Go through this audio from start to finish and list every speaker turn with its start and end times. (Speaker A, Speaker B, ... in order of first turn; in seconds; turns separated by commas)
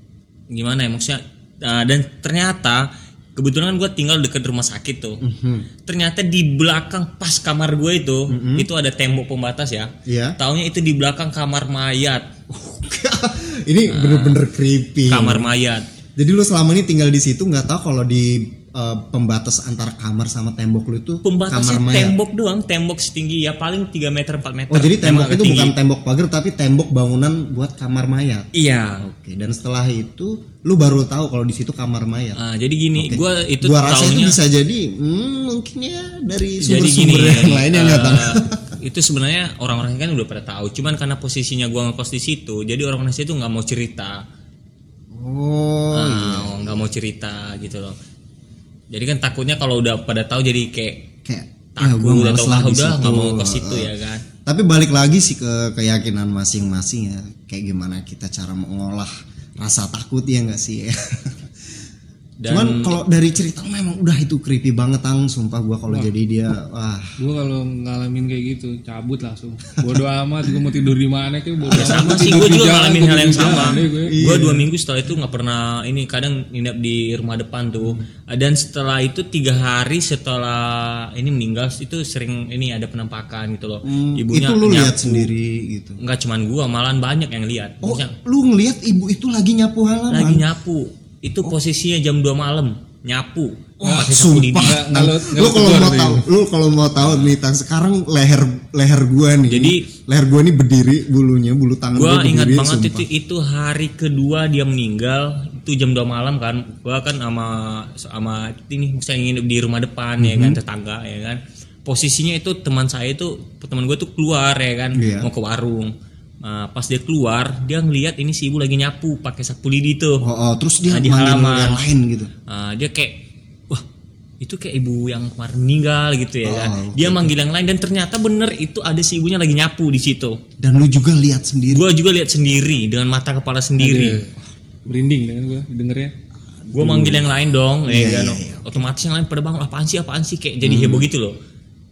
Speaker A: 0.5-5.2, Speaker B: 5.2-5.7, Speaker A: 5.8-12.2, Speaker B: 8.3-8.7, Speaker B: 10.1-10.4, Speaker B: 12.5-15.5, Speaker A: 13.9-14.4, Speaker A: 15.1-15.8, Speaker B: 16.2-22.2, Speaker A: 21.2-25.8, Speaker B: 24.7-32.4, Speaker A: 28.5-29.0, Speaker A: 32.4-34.4, Speaker B: 33.0-38.6, Speaker A: 36.6-44.2, Speaker B: 45.1-46.9, Speaker A: 45.9-47.9, Speaker A: 48.9-51.1, Speaker B: 51.2-53.9, Speaker A: 51.8-54.2, Speaker B: 54.5-61.5, Speaker A: 62.4-63.0, Speaker B: 62.5-67.2, Speaker C: 67.2-74.4, Speaker B: 71.7-72.7, Speaker A: 71.7-85.3, Speaker B: 73.4-74.7, Speaker B: 83.8-86.0, Speaker A: 86.0-88.2, Speaker B: 87.8-90.5, Speaker A: 90.1-94.8, Speaker B: 93.8-103.1, Speaker C: 94.6-96.3, Speaker A: 97.0-97.4, Speaker A: 99.4-99.8, Speaker A: 101.9-115.9, Speaker B: 110.2-110.6, Speaker B: 115.0-115.3, Speaker A: 116.4-120.2, Speaker B: 120.2-122.3, Speaker A: 120.9-121.8, Speaker A: 122.5-123.2, Speaker A: 124.4-130.4, Speaker B: 126.4-127.3, Speaker B: 130.6-131.9, Speaker A: 131.7-134.2, Speaker C: 133.8-134.3, Speaker C: 134.9-136.1, Speaker B: 136.6-138.9, Speaker A: 136.7-141.4, Speaker B: 140.6-141.1